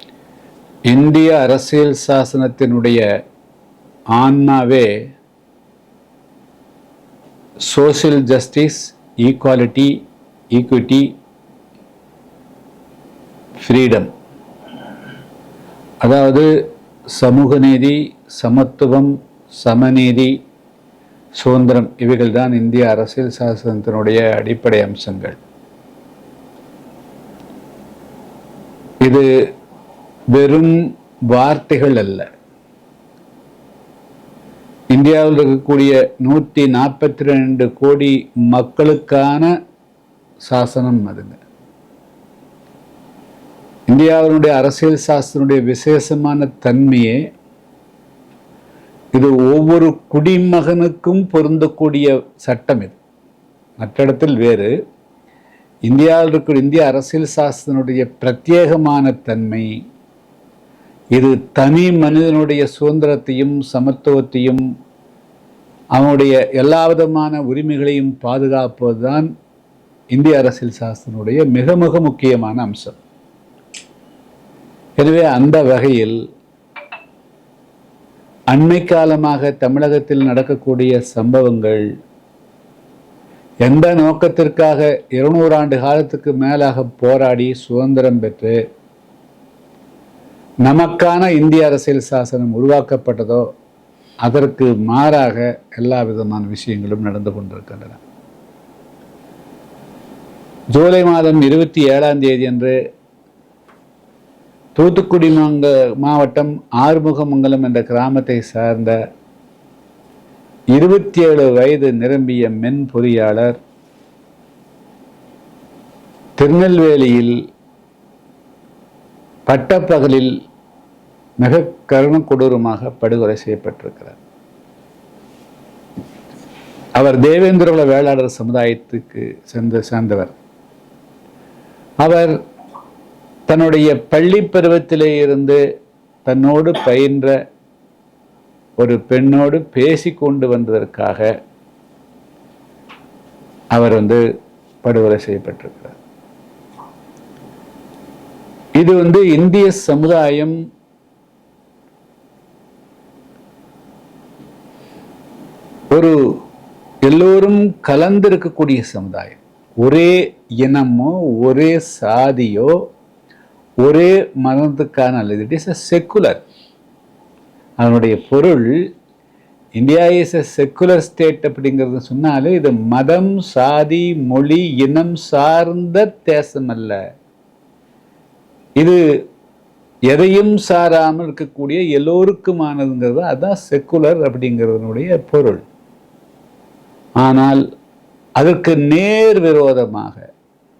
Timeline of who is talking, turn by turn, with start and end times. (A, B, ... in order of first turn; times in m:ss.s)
0:00.9-0:03.0 A
0:04.1-0:04.9 A
0:07.7-0:10.0 A
0:10.5-0:11.1 A
0:13.6-0:14.1 A
0:16.0-0:16.5 A
0:17.2-0:20.4 A
0:21.4-0:25.4 A
0:30.4-0:32.3 A
0:34.9-0:39.5 A
0:40.5-0:41.4 A
0:43.9-0:47.2 A
0:49.2-0:53.0 A
0:53.8-0:54.7 A
0:55.9-0:59.7 A
1:01.2-1:04.6 A
1:06.0-1:09.3 A
1:10.1-1:13.0 A
1:15.0-1:16.2 A
1:18.5-1:21.8 A
1:23.6-1:28.6 A
1:30.6-1:33.5 A
1:34.2-1:38.0 A
1:40.7-1:42.8 A
1:44.8-1:49.0 A
1:50.8-1:53.6 A
1:56.4-1:57.4 A
1:59.5-2:00.3 A
2:01.4-2:04.2 A
2:07.0-2:10.3 A
2:12.0-2:12.4 A
2:13.5-2:15.6 A
2:16.3-2:17.3 A
2:18.8-2:21.3 A
2:23.7-2:24.2 A
2:24.8-2:26.0 A
2:28.8-2:30.6 A
2:37.0-2:42.7 A
2:43.8-2:46.4 A
2:47.8-2:48.8 A
2:49.8-2:57.0 A
3:00.1-3:05.6 A
3:07.2-3:07.6 A
3:08.4-3:10.3 A